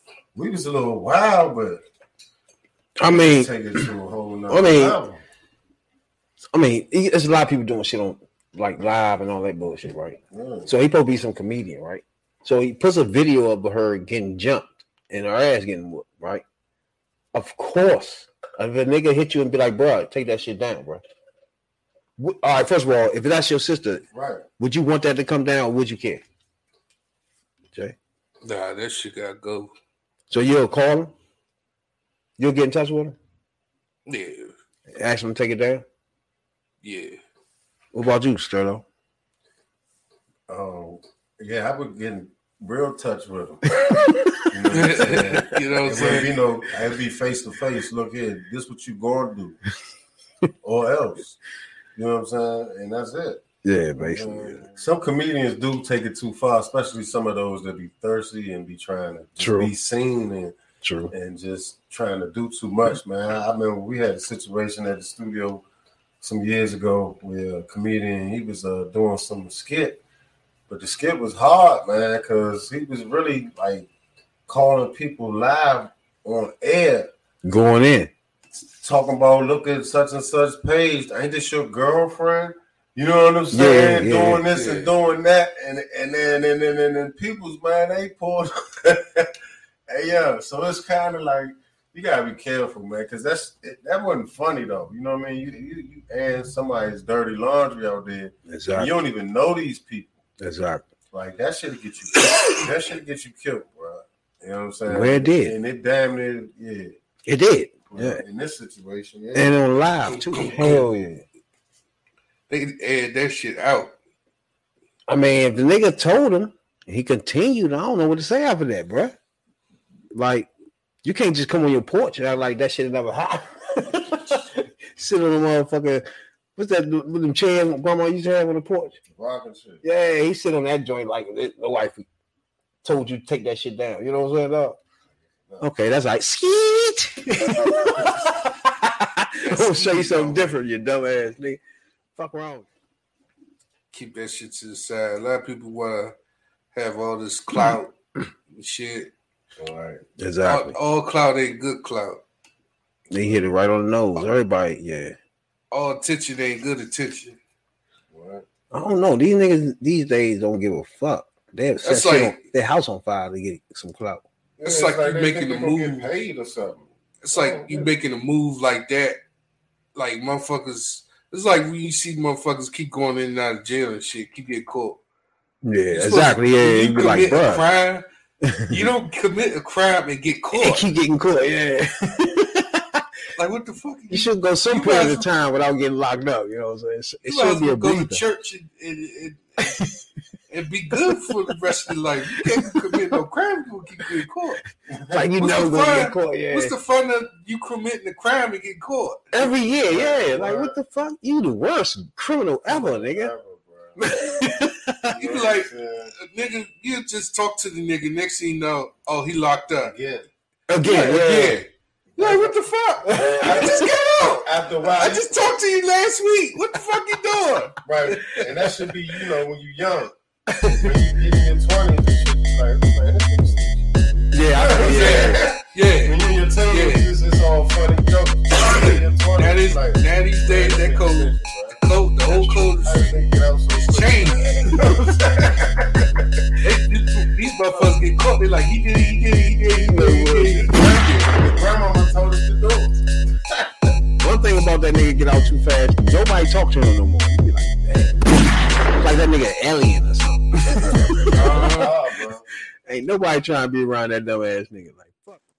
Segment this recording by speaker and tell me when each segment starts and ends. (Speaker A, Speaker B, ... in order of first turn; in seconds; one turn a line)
Speaker A: 0.3-1.8
Speaker B: 3.0-3.5
Speaker A: 3.1-5.2
Speaker B: 4.5-5.0
Speaker B: 6.5-16.4
Speaker A: 10.3-10.7
Speaker B: 17.3-21.0
Speaker B: 22.2-24.0
Speaker A: 24.1-24.4
Speaker B: 24.6-26.2
Speaker C: 28.4-29.7
Speaker B: 30.3-31.1
Speaker B: 32.4-33.1
Speaker C: 34.1-34.5
Speaker B: 34.9-35.8
Speaker C: 36.8-37.2
Speaker B: 37.9-38.8
Speaker A: 40.5-43.6
Speaker B: 43.8-44.2
Speaker A: 44.5-49.6
Speaker C: 44.7-46.3
Speaker A: 50.6-51.4
Speaker A: 51.9-53.4
Speaker B: 53.6-54.6
Speaker A: 54.0-60.5
Speaker B: 59.4-59.7
Speaker B: 60.8-61.1
Speaker A: 61.1-65.6
Speaker A: 66.2-70.0
Speaker A: 70.7-73.9
Speaker A: 74.5-77.1
Speaker B: 77.4-78.1
Speaker A: 78.8-89.3
Speaker B: 83.5-84.4
Speaker C: 84.5-84.9
Speaker A: 89.9-100.2
Speaker B: 98.5-98.9
Speaker B: 100.4-100.8
Speaker A: 101.1-106.9
Speaker B: 104.9-105.5
Speaker B: 107.2-108.2
Speaker A: 107.9-109.6
Speaker B: 109.3-111.2
Speaker C: 110.1-110.8
Speaker C: 112.5-113.9
Speaker B: 115.1-119.2
Speaker B: 120.1-120.5
Speaker B: 121.0-126.0
Speaker B: 126.5-129.0
Speaker A: 129.1-129.8
Speaker B: 129.8-132.1
Speaker B: 132.8-134.8
Speaker B: 135.6-141.6
Speaker C: 139.4-140.6
Speaker B: 142.2-142.7
Speaker C: 143.9-146.1
Speaker C: 146.7-147.9
Speaker C: 148.5-149.1
Speaker A: 149.6-150.0
Speaker B: 150.2-150.8
Speaker C: 150.4-152.2
Speaker B: 153.1-155.1
Speaker C: 155.7-157.4
Speaker A: 158.1-158.4
Speaker B: 158.7-164.2
Speaker C: 161.8-162.4
Speaker A: 164.6-167.9
Speaker C: 164.6-166.1
Speaker C: 167.2-169.2
Speaker C: 169.9-175.0
Speaker B: 175.6-177.7
Speaker C: 175.9-178.0
Speaker B: 178.4-178.9
Speaker C: 178.7-180.8
Speaker B: 180.5-183.0
Speaker C: 183.4-185.3
Speaker B: 184.1-188.2
Speaker C: 187.2-189.8
Speaker C: 190.5-194.6
Speaker B: 192.4-192.9
Speaker A: 194.9-195.3
Speaker B: 195.1-196.7
Speaker C: 195.4-199.5
Speaker B: 199.3-203.3
Speaker A: 199.8-200.7
Speaker A: 202.7-204.0
Speaker B: 204.0-205.1
Speaker C: 205.1-209.9
Speaker A: 205.2-206.1
Speaker A: 209.7-210.3
Speaker B: 210.7-211.6
Speaker C: 210.8-218.7
Speaker A: 212.2-212.6
Speaker B: 213.1-213.9
Speaker A: 213.3-215.4
Speaker A: 217.8-220.1
Speaker A: 220.6-223.9
Speaker B: 224.3-225.4
Speaker A: 224.5-236.2
Speaker C: 224.8-227.1
Speaker C: 228.6-233.2
Speaker C: 233.7-234.7
Speaker C: 236.6-241.3
Speaker B: 239.7-240.7
Speaker A: 241.3-242.9
Speaker A: 243.5-243.9
Speaker B: 244.2-248.3
Speaker B: 248.8-251.9
Speaker A: 250.8-252.4
Speaker C: 251.3-251.9
Speaker B: 252.8-255.4